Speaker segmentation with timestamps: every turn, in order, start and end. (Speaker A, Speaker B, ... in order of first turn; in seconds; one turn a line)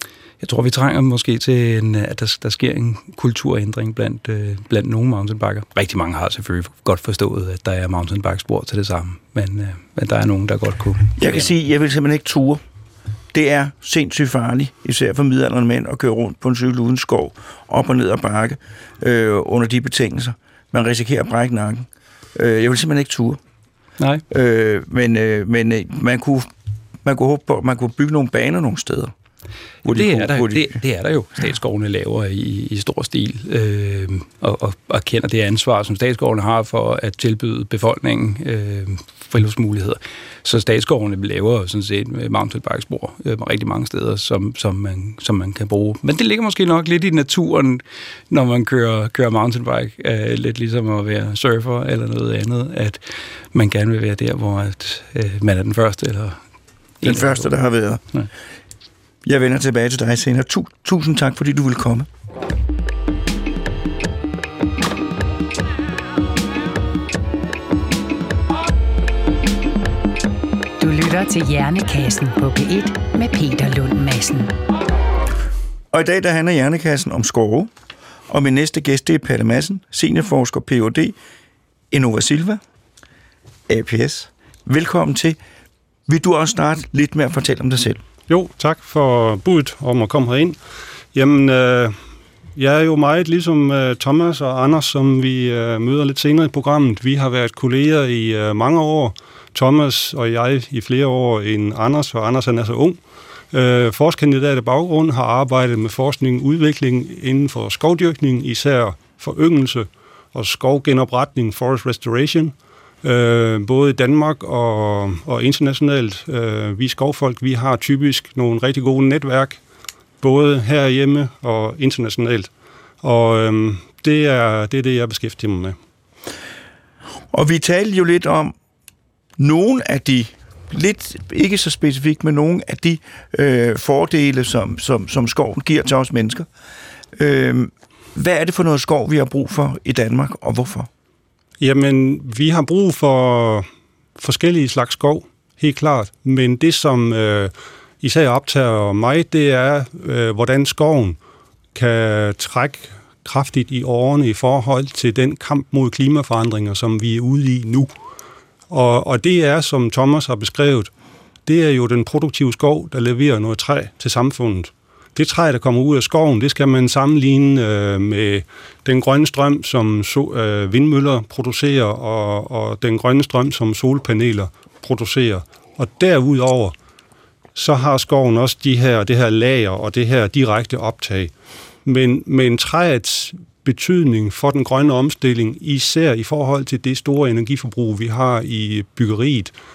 Speaker A: 0.4-11.5
Speaker B: 11.2-12.6
Speaker B: 13.3-23.4
Speaker B: 24.3-26.5
Speaker B: 27.0-29.1
Speaker B: 29.8-30.8
Speaker A: 29.8-53.0
Speaker A: 53.5-56.4
Speaker A: 57.0-57.5
Speaker B: 57.0-58.0
Speaker B: 59.2-62.1
Speaker C: 70.8-74.5
Speaker B: 75.9-77.7
Speaker B: 78.3-81.2
Speaker B: 81.9-82.6
Speaker B: 83.7-85.4
Speaker B: 86.1-88.0
Speaker D: 88.3-90.6
Speaker D: 91.1-92.0
Speaker D: 92.6-103.0
Speaker D: 103.5-119.6
Speaker D: 120.2-122.5
Speaker D: 123.0-125.8
Speaker B: 127.3-128.5
Speaker B: 129.4-136.5
Speaker B: 137.2-140.9
Speaker D: 141.6-143.7
Speaker D: 144.2-151.2
Speaker D: 151.8-157.9
Speaker D: 158.7-160.9
Speaker D: 161.5-176.7
Speaker D: 177.6-181.3
Speaker D: 181.8-189.5